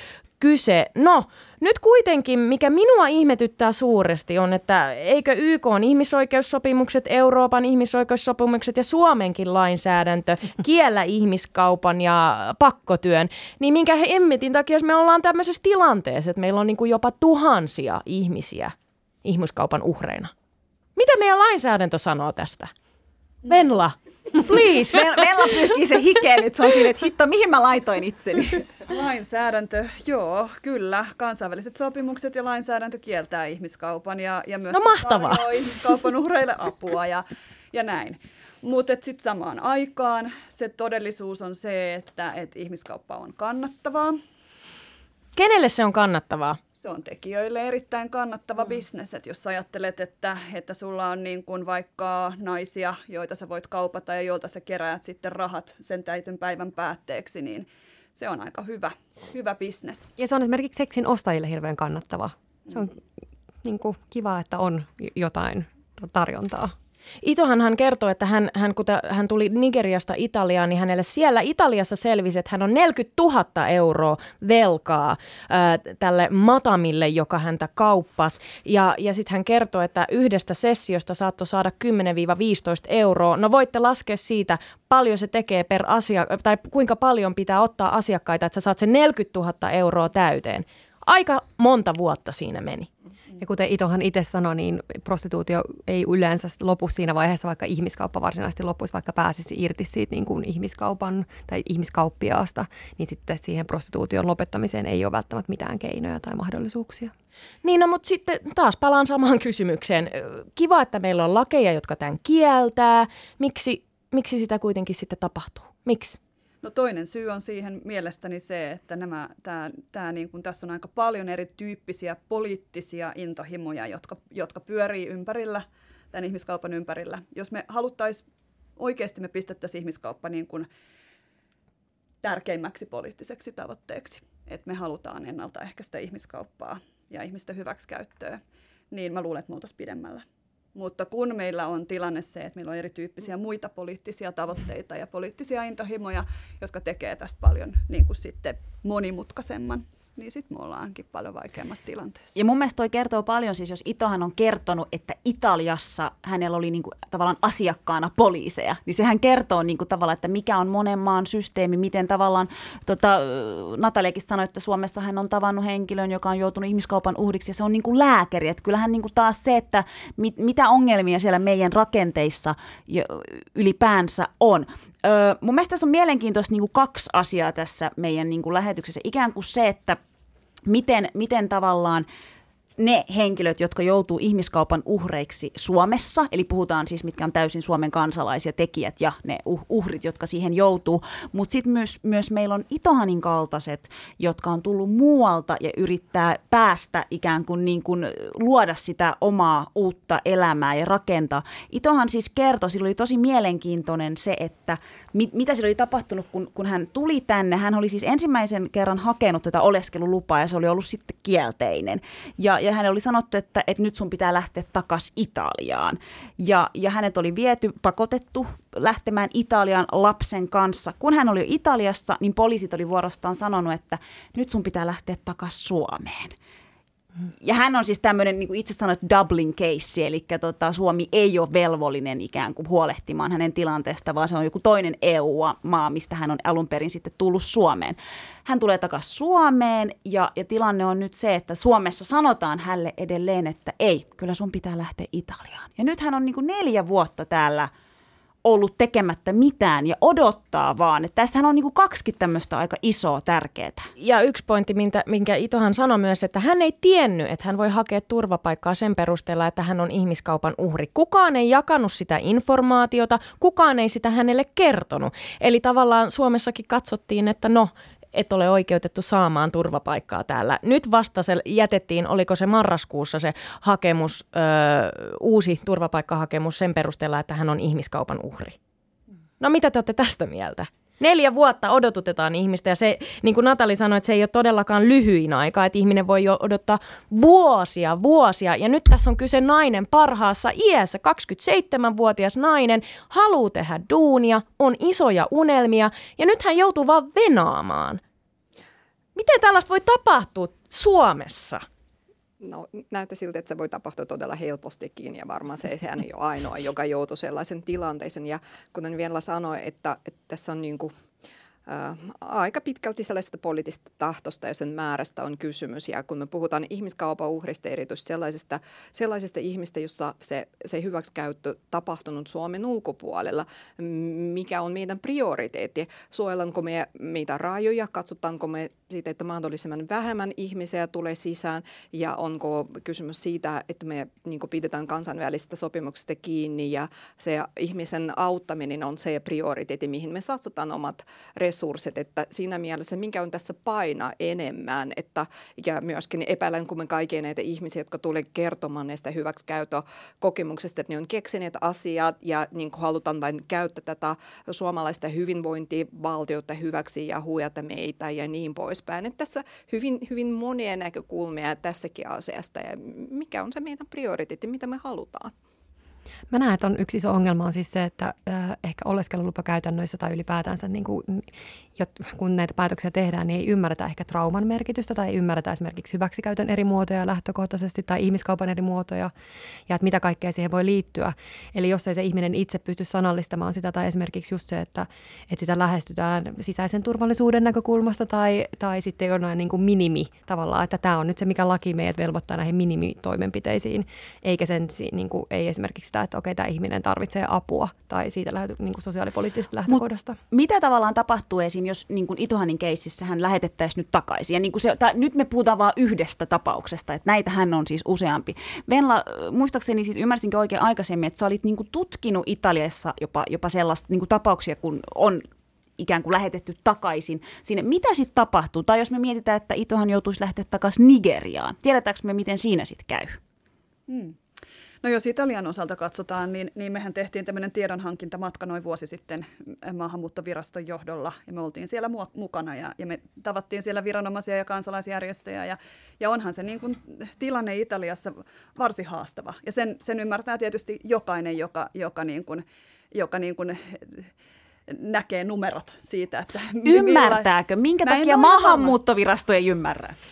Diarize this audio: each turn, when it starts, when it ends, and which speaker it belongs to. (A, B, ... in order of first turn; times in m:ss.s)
0:00.4-0:20.3 A
0:21.0-0:22.7 A
0:23.5-0:25.3 A
0:24.8-0:28.7 B
0:28.9-0:44.2 C
0:34.7-0:35.5 A
0:45.4-0:46.6 A
0:46.8-1:00.1 C
1:00.2-1:03.0 D
1:03.6-1:06.7 D
1:07.2-1:32.9 A
1:33.4-1:47.1 D
1:47.6-1:56.2 A
1:56.6-2:08.2 C
2:08.8-2:10.7 C
2:12.2-2:18.4 C
2:18.9-2:20.2 C
2:20.7-2:32.4 C
2:32.4-3:00.0 B
3:00.6-3:02.0 B
3:02.8-3:46.3 B
3:47.3-4:07.7 B
4:08.4-4:13.9 B
4:14.0-4:38.6 A
4:39.4-4:58.0 A
4:59.1-5:01.6 A
5:02.4-5:10.9 E
5:11.7-6:05.3 E
6:06.3-6:19.1 D
6:19.7-6:40.2 D
6:39.7-6:55.2 B
6:55.8-7:03.2 B
7:03.9-7:04.2 C
7:04.8-7:24.1 C
7:24.7-7:27.3 C
7:26.6-7:30.0 B
7:27.8-7:28.8 C